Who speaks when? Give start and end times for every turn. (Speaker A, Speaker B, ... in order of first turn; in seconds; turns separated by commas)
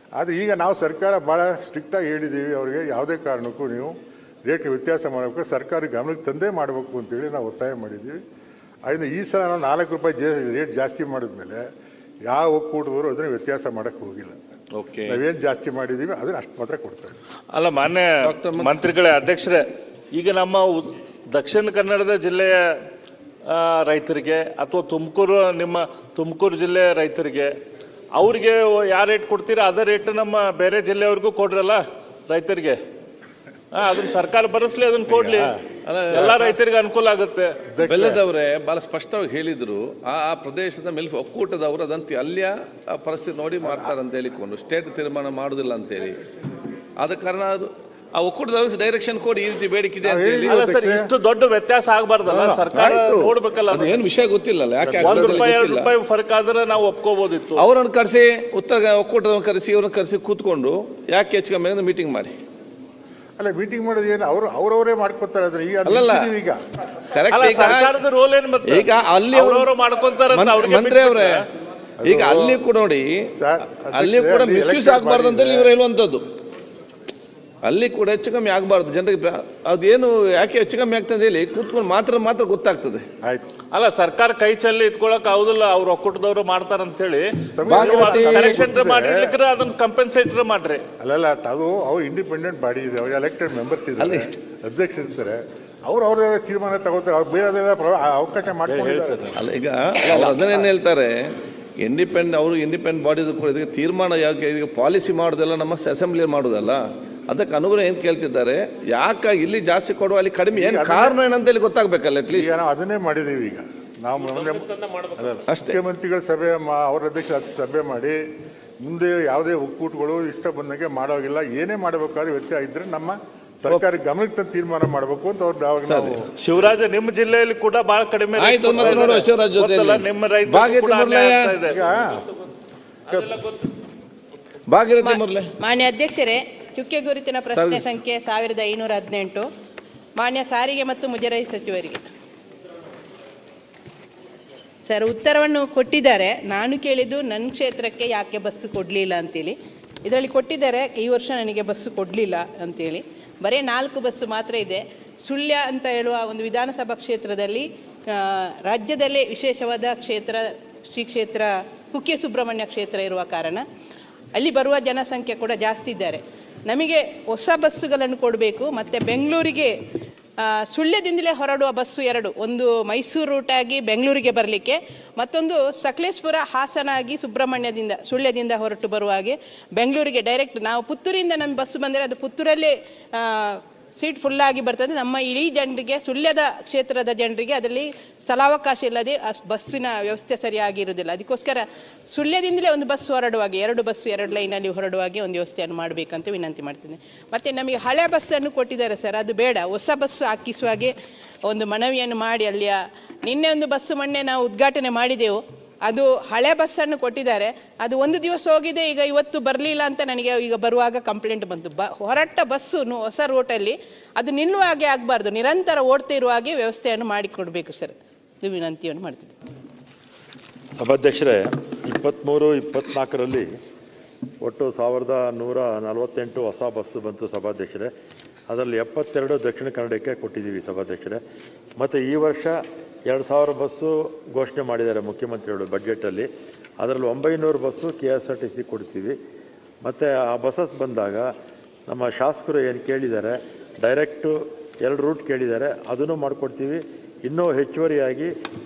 Speaker A: 0.2-8.2, Speaker A: 8.8-11.6, Speaker A: 12.3-14.3, Speaker B: 14.8-15.2, Speaker A: 15.1-17.2, Speaker C: 17.5-22.7, Speaker B: 18.2-18.7, Speaker C: 23.5-27.6, Speaker C: 28.1-32.8, Speaker C: 33.7-35.5, Speaker A: 35.1-35.6, Speaker B: 35.9-36.4, Speaker C: 36.1-37.6, Speaker A: 36.1-36.4, Speaker A: 37.7-38.2, Speaker B: 37.8-46.2, Speaker A: 43.6-43.9, Speaker B: 47.0-50.5, Speaker A: 50.0-51.1, Speaker C: 50.5-54.0, Speaker A: 52.3-52.6, Speaker B: 52.7-55.9, Speaker A: 54.8-55.5, Speaker C: 55.0-57.6, Speaker B: 57.6-62.4, Speaker A: 63.4-66.6, Speaker B: 65.8-66.3, Speaker B: 67.1-68.0, Speaker C: 67.3-71.4, Speaker B: 68.7-69.7, Speaker B: 70.3-71.4, Speaker A: 72.0-72.6, Speaker B: 72.0-73.2, Speaker A: 73.3-75.7, Speaker B: 73.9-76.2, Speaker B: 77.6-83.0, Speaker C: 83.7-90.8, Speaker A: 87.5-89.4, Speaker B: 87.7-88.6, Speaker A: 91.0-99.3, Speaker B: 94.0-94.2, Speaker C: 98.7-99.3, Speaker B: 99.4-112.5, Speaker A: 110.5-111.2, Speaker A: 112.3-118.2, Speaker B: 115.5-115.8, Speaker A: 118.8-126.3, Speaker B: 125.8-126.2, Speaker C: 126.4-131.8, Speaker B: 128.4-131.5, Speaker A: 131.7-132.2, Speaker B: 134.7-135.5, Speaker D: 135.0-139.5, Speaker B: 137.5-137.9, Speaker D: 140.2-142.0, Speaker D: 144.8-163.6, Speaker D: 164.3-169.7, Speaker D: 170.4-200.9, Speaker D: 201.4-219.4, Speaker E: 220.8-223.6, Speaker E: 224.4-227.9, Speaker E: 228.5-231.2, Speaker E: 231.8-239.2, Speaker E: 239.8-241.3, Speaker E: 241.9-248.3